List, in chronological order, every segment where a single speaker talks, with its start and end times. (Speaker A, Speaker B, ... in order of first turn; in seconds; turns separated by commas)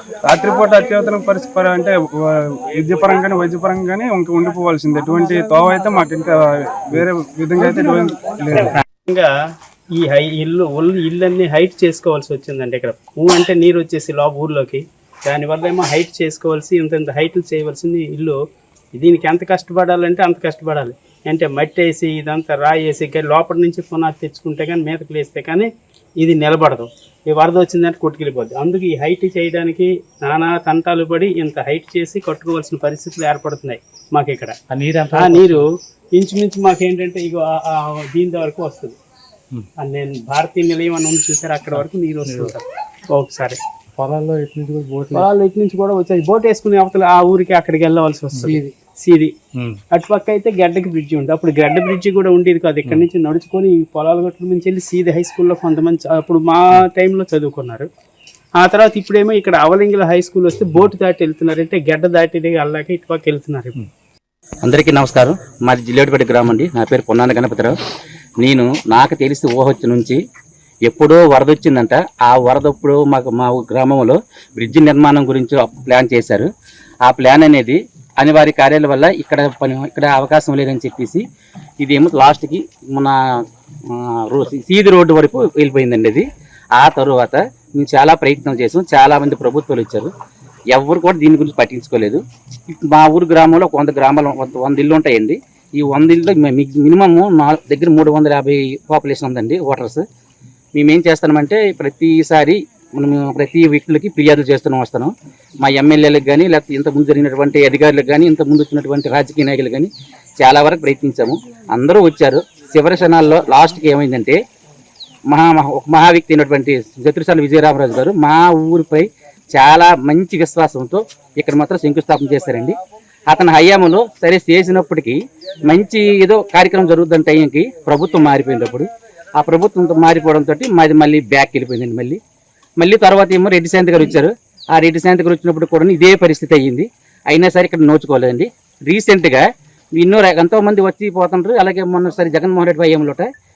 Speaker A: 0.2-8.8, Speaker B: 7.7-8.0, Speaker B: 8.5-9.3, Speaker C: 8.5-8.8, Speaker B: 10.0-18.4, Speaker B: 18.9-25.7, Speaker B: 26.2-34.6, Speaker C: 34.7-35.6, Speaker B: 35.1-35.6, Speaker B: 36.1-39.0, Speaker B: 39.8-42.6, Speaker C: 41.7-42.5, Speaker B: 43.1-43.6, Speaker C: 44.0-45.3, Speaker B: 45.1-49.3, Speaker C: 48.3-48.7, Speaker B: 49.9-57.9, Speaker B: 58.6-63.8, Speaker D: 64.6-67.7, Speaker D: 68.4-70.2, Speaker D: 70.8-76.5, Speaker D: 77.0-81.2, Speaker D: 81.8-83.2, Speaker D: 83.9-86.2, Speaker D: 86.8-90.1, Speaker D: 90.7-100.0, Speaker D: 100.8-114.4, Speaker D: 115.3-132.2, Speaker D: 132.8-139.4, Speaker D: 140.0-143.3